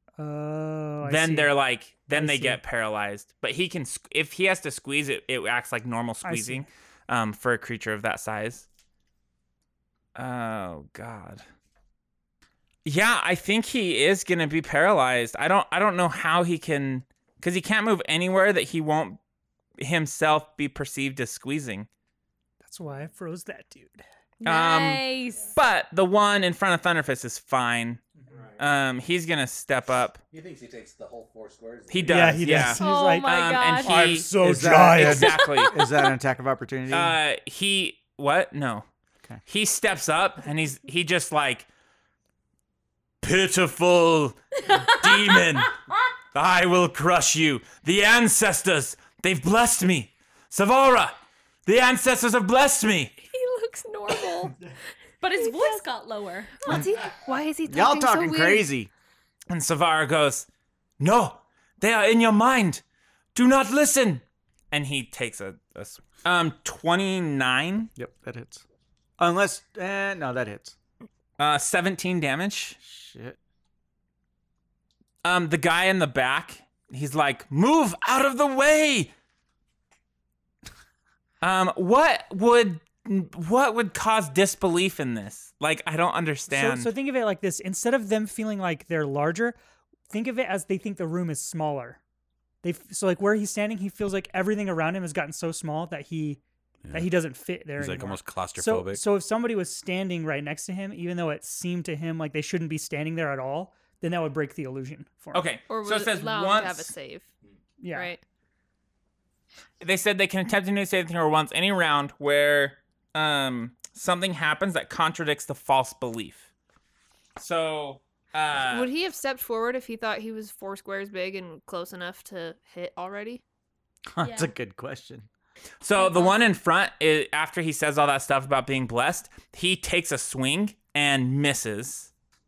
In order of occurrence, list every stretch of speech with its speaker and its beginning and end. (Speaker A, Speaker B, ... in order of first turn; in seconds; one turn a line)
Speaker A: 0.2-1.5
Speaker B: 1.0-8.7
Speaker A: 2.1-2.6
Speaker A: 6.2-6.7
Speaker B: 10.1-11.4
Speaker B: 12.8-19.2
Speaker B: 19.8-21.9
Speaker A: 22.6-24.0
Speaker C: 24.4-25.5
Speaker B: 24.4-28.0
Speaker D: 28.3-28.6
Speaker B: 28.6-30.2
Speaker D: 30.3-32.3
Speaker B: 31.9-34.3
Speaker A: 32.0-33.3
Speaker C: 32.8-34.0
Speaker A: 33.8-35.4
Speaker E: 34.1-37.2
Speaker B: 34.9-35.8
Speaker C: 35.1-35.8
Speaker B: 36.9-38.9
Speaker B: 39.5-41.7
Speaker B: 43.2-45.8
Speaker B: 46.3-53.2
Speaker F: 53.2-54.5
Speaker C: 55.2-56.7
Speaker F: 55.3-55.8
Speaker F: 56.6-58.7
Speaker E: 57.6-58.9
Speaker B: 59.5-60.5
Speaker B: 61.0-62.8
Speaker B: 63.3-67.9
Speaker E: 68.0-68.6
Speaker E: 69.2-70.8
Speaker B: 71.4-72.8
Speaker E: 72.8-73.4
Speaker B: 75.2-79.1
Speaker B: 81.4-86.9
Speaker A: 86.5-89.5
Speaker A: 90.1-92.0
Speaker A: 92.6-105.5
Speaker D: 96.8-99.0
Speaker B: 105.3-106.9
Speaker F: 105.7-107.3
Speaker A: 107.8-108.1
Speaker F: 107.9-108.2
Speaker B: 109.8-116.5
Speaker B: 117.4-118.9
Speaker F: 118.6-123.4
Speaker E: 124.1-125.3
Speaker C: 124.2-124.5
Speaker B: 125.8-132.1
Speaker C: 126.0-126.5